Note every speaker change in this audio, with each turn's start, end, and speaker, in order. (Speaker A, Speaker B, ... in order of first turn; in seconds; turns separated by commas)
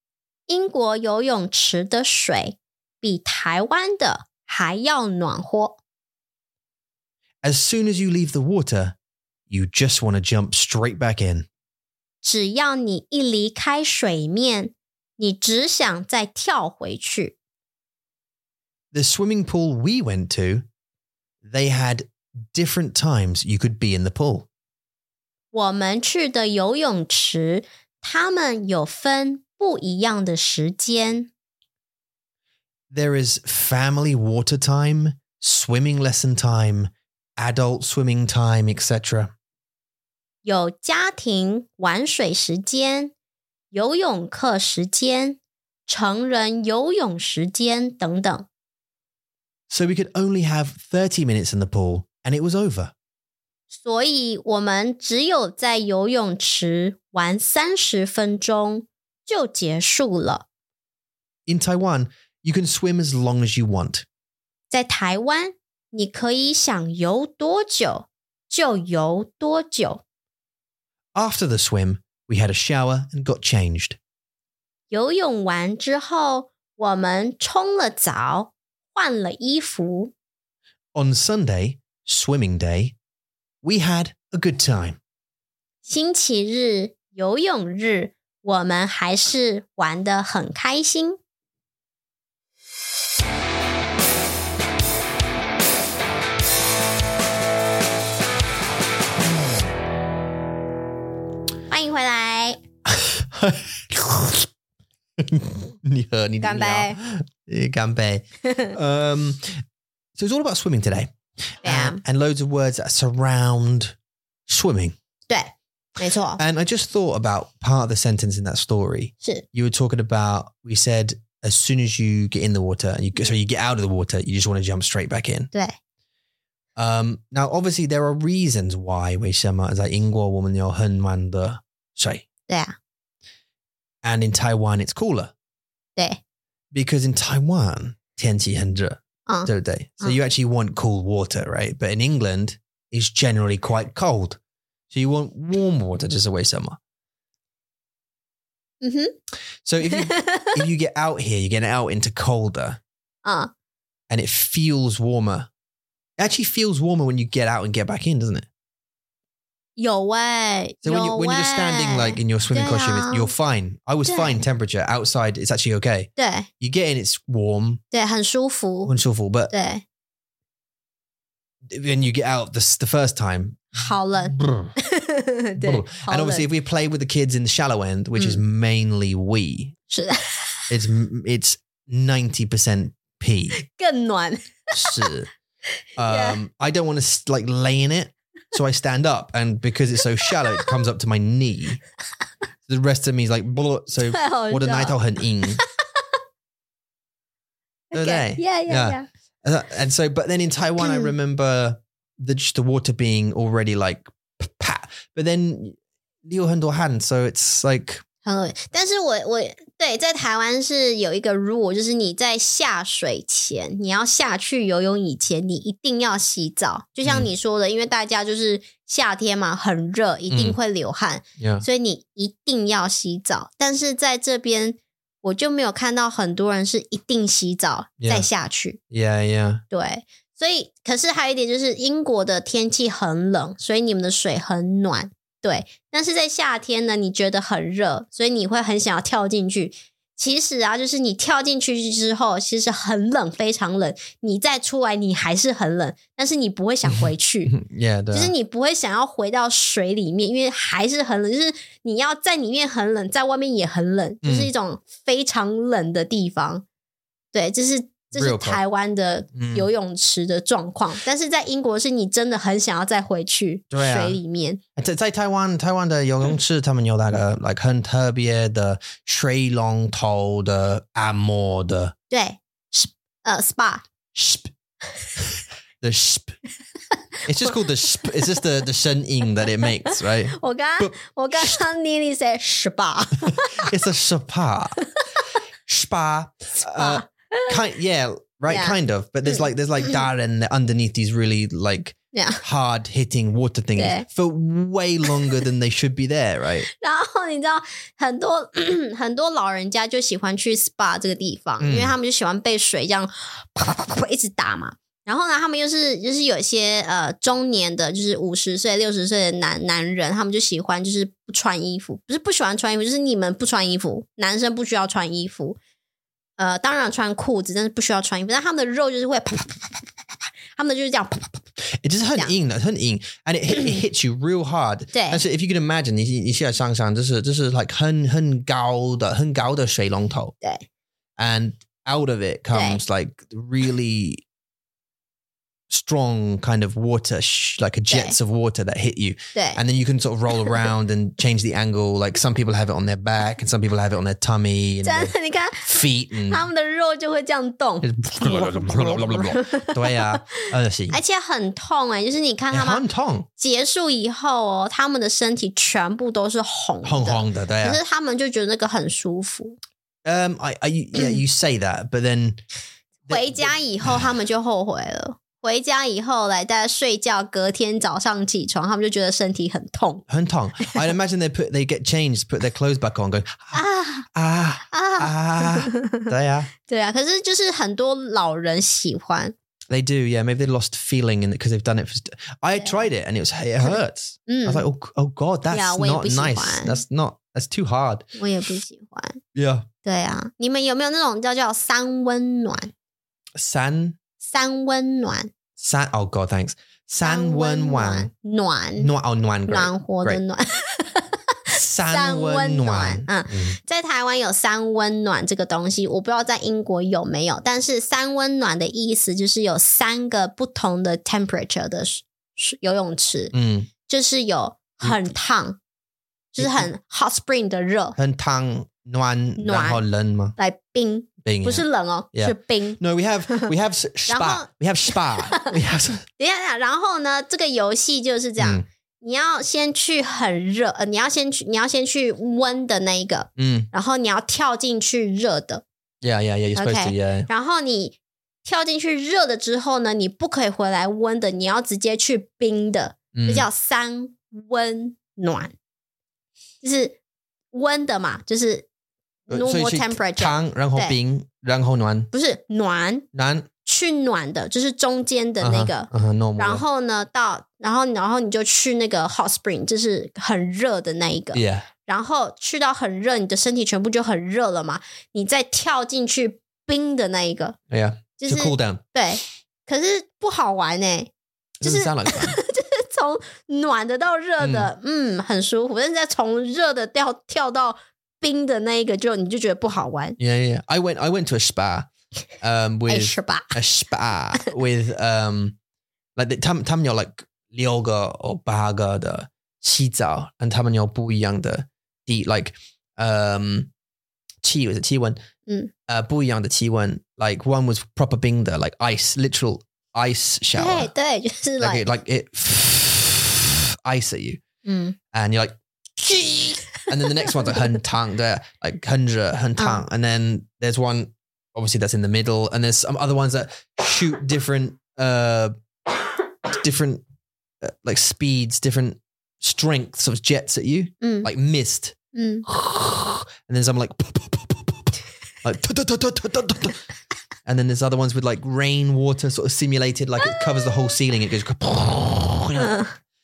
Speaker A: 0.5-5.8, Speaker B: 7.4-8.9, Speaker B: 9.5-11.5, Speaker A: 12.2-17.4, Speaker B: 18.9-20.6, Speaker B: 21.4-24.5, Speaker A: 25.5-31.3, Speaker B: 32.9-39.3, Speaker A: 40.4-43.1, Speaker A: 43.7-48.5, Speaker B: 49.7-52.9, Speaker A: 53.7-60.5, Speaker B: 61.5-64.0, Speaker A: 64.7-70.0, Speaker B: 71.1-74.0, Speaker A: 74.9-80.1, Speaker B: 80.9-83.0, Speaker B: 83.6-85.0, Speaker A: 85.8-91.2, Speaker A: 101.7-102.6, Speaker B: 102.9-104.5, Speaker B: 105.2-109.5, Speaker A: 106.4-107.0, Speaker A: 108.4-108.8, Speaker B: 110.2-111.1, Speaker B: 111.6-113.9, Speaker A: 111.6-112.0, Speaker B: 114.5-115.0, Speaker A: 115.3-116.4, Speaker B: 116.4-125.5, Speaker B: 126.8-132.2, Speaker A: 132.5-132.7, Speaker B: 134.0-135.3, Speaker B: 136.7-144.4, Speaker B: 144.9-146.8, Speaker A: 148.8-149.1, Speaker B: 149.6-152.8, Speaker A: 149.8-150.6, Speaker A: 153.2-153.5, Speaker B: 154.1-155.5, Speaker B: 156.2-158.5, Speaker A: 159.8-163.3, Speaker B: 160.8-167.8, Speaker A: 164.1-164.4, Speaker A: 166.2-166.5, Speaker A: 167.9-168.9, Speaker B: 168.8-169.5, Speaker A: 169.5-169.8, Speaker B: 171.7-174.7, Speaker A: 173.7-176.5, Speaker B: 175.6-179.8, Speaker A: 179.9-180.7, Speaker B: 180.7-183.6, Speaker A: 183.5-185.1, Speaker B: 184.7-185.3, Speaker B: 186.0-191.8, Speaker A: 186.1-186.4, Speaker B: 192.7-195.6, Speaker A: 194.1-195.0, Speaker A: 197.9-199.1, Speaker B: 197.9-208.0, Speaker A: 200.8-201.1, Speaker A: 208.2-228.8, Speaker B: 217.0-217.3, Speaker B: 220.3-220.6, Speaker B: 221.4-221.6, Speaker B: 228.0-228.2, Speaker B: 228.9-229.6, Speaker A: 229.7-247.5, Speaker B: 246.9-248.3, Speaker A: 248.1-256.6, Speaker B: 254.2-254.5, Speaker A: 257.3-264.6, Speaker B: 258.1-258.6, Speaker B: 259.3-259.7, Speaker B: 263.7-264.2, Speaker B: 264.8-271.9, Speaker A: 272.1-273.9, Speaker B: 274.1-274.5, Speaker B: 275.2-276.4, Speaker B: 277.2-281.6, Speaker A: 279.6-283.7, Speaker B: 283.3-284.8, Speaker B: 285.6-296.7, Speaker A: 286.7-287.6, Speaker A: 288.5-290.0, Speaker A: 292.1-292.4, Speaker A: 293.8-294.1, Speaker A: 296.7-315.6, Speaker B: 301.6-301.9, Speaker A: 316.4-319.9, Speaker A: 320.5-321.5, Speaker B: 321.8-330.3, Speaker A: 324.9-325.2, Speaker B: 331.2-334.2, Speaker A: 332.5-332.8, Speaker B: 335.7-345.1, Speaker A: 337.9-338.2, Speaker A: 339.3-339.6, Speaker A: 344.8-352.8, Speaker B: 345.6-346.4, Speaker B: 347.8-351.0, Speaker B: 352.5-353.3, Speaker A: 353.4-359.6, Speaker B: 356.8-357.8, Speaker B: 360.0-362.4, Speaker B: 363.1-364.1, Speaker A: 363.1-370.0, Speaker B: 370.1-373.6, Speaker A: 373.5-374.1, Speaker B: 374.1-376.5, Speaker A: 374.7-376.1, Speaker A: 376.6-379.3, Speaker B: 379.7-388.1, Speaker A: 383.6-384.6, Speaker A: 385.5-386.8, Speaker A: 388.2-389.2, Speaker B: 389.3-389.7, Speaker A: 389.8-392.7, Speaker B: 393.4-394.0, Speaker A: 394.2-395.3, Speaker B: 395.6-398.1, Speaker A: 397.0-398.9, Speaker B: 398.8-400.2, Speaker A: 399.5-413.3, Speaker B: 401.5-403.6, Speaker B: 413.3-413.7, Speaker A: 413.9-415.6, Speaker A: 416.3-418.0, Speaker B: 416.4-416.7, Speaker B: 418.0-420.4, Speaker A: 419.4-419.8, Speaker A: 420.4-423.5, Speaker B: 421.2-426.0, Speaker A: 424.1-425.5, Speaker A: 426.2-435.6, Speaker B: 428.4-428.6, Speaker B: 433.4-433.7, Speaker B: 436.0-437.3, Speaker A: 436.6-445.5, Speaker B: 443.1-443.4, Speaker A: 446.6-447.0, Speaker A: 447.5-448.6, Speaker A: 449.3-450.9, Speaker B: 449.3-452.1, Speaker A: 452.1-453.1, Speaker B: 453.1-453.5, Speaker A: 453.6-467.6, Speaker B: 455.4-456.6, Speaker B: 461.3-461.7, Speaker B: 467.7-468.8, Speaker A: 468.2-471.1, Speaker B: 471.6-472.4, Speaker A: 471.6-480.2, Speaker B: 474.4-474.7, Speaker B: 480.2-481.9, Speaker B: 482.4-485.6, Speaker A: 482.9-483.5, Speaker B: 486.1-493.7, Speaker B: 494.4-495.2, Speaker B: 495.9-500.9, Speaker A: 500.6-501.8, Speaker B: 501.6-504.4, Speaker A: 504.6-504.9, Speaker B: 505.1-515.5, Speaker A: 509.6-509.8, Speaker B: 516.5-517.0, Speaker B: 517.6-521.9, Speaker A: 521.0-521.3, Speaker A: 522.1-522.5, Speaker B: 522.5-526.8, Speaker B: 527.4-532.8, Speaker A: 532.6-532.9